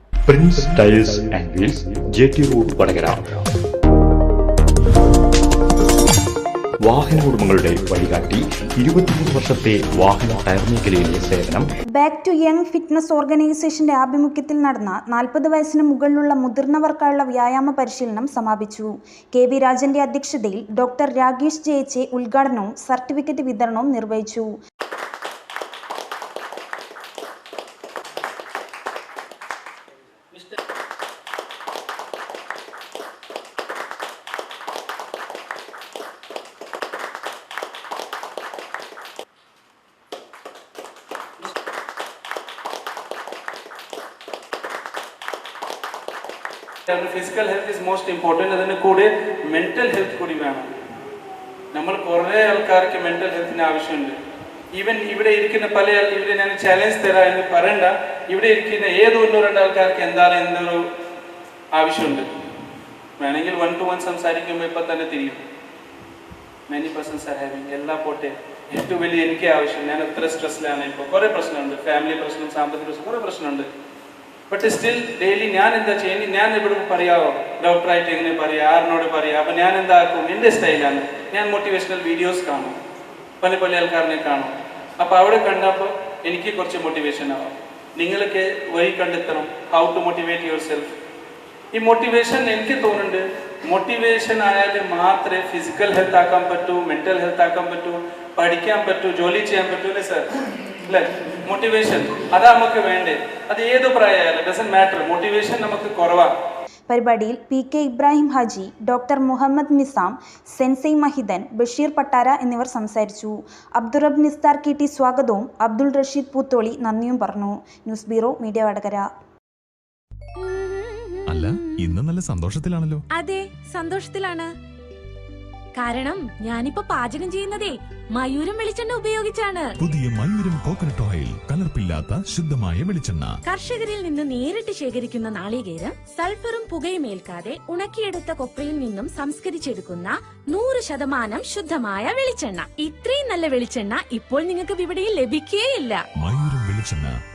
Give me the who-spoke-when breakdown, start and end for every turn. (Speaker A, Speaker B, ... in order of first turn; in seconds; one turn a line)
Speaker A: 0.3-3.5
Speaker A: 6.8-11.7
Speaker B: 11.9-24.5
Speaker C: 46.9-50.7
Speaker C: 51.7-54.2
Speaker C: 54.7-60.8
Speaker C: 61.8-62.3
Speaker C: 63.2-65.4
Speaker C: 66.7-73.7
Speaker C: 74.5-82.8
Speaker C: 83.4-90.9
Speaker C: 91.7-100.3
Speaker C: 100.9-106.3
Speaker B: 106.9-119.1
Speaker D: 120.4-122.0
Speaker E: 121.3-123.0
Speaker D: 123.1-124.5
Speaker D: 125.8-129.7
Speaker E: 129.8-133.3
Speaker D: 133.5-146.1
Speaker E: 146.2-147.1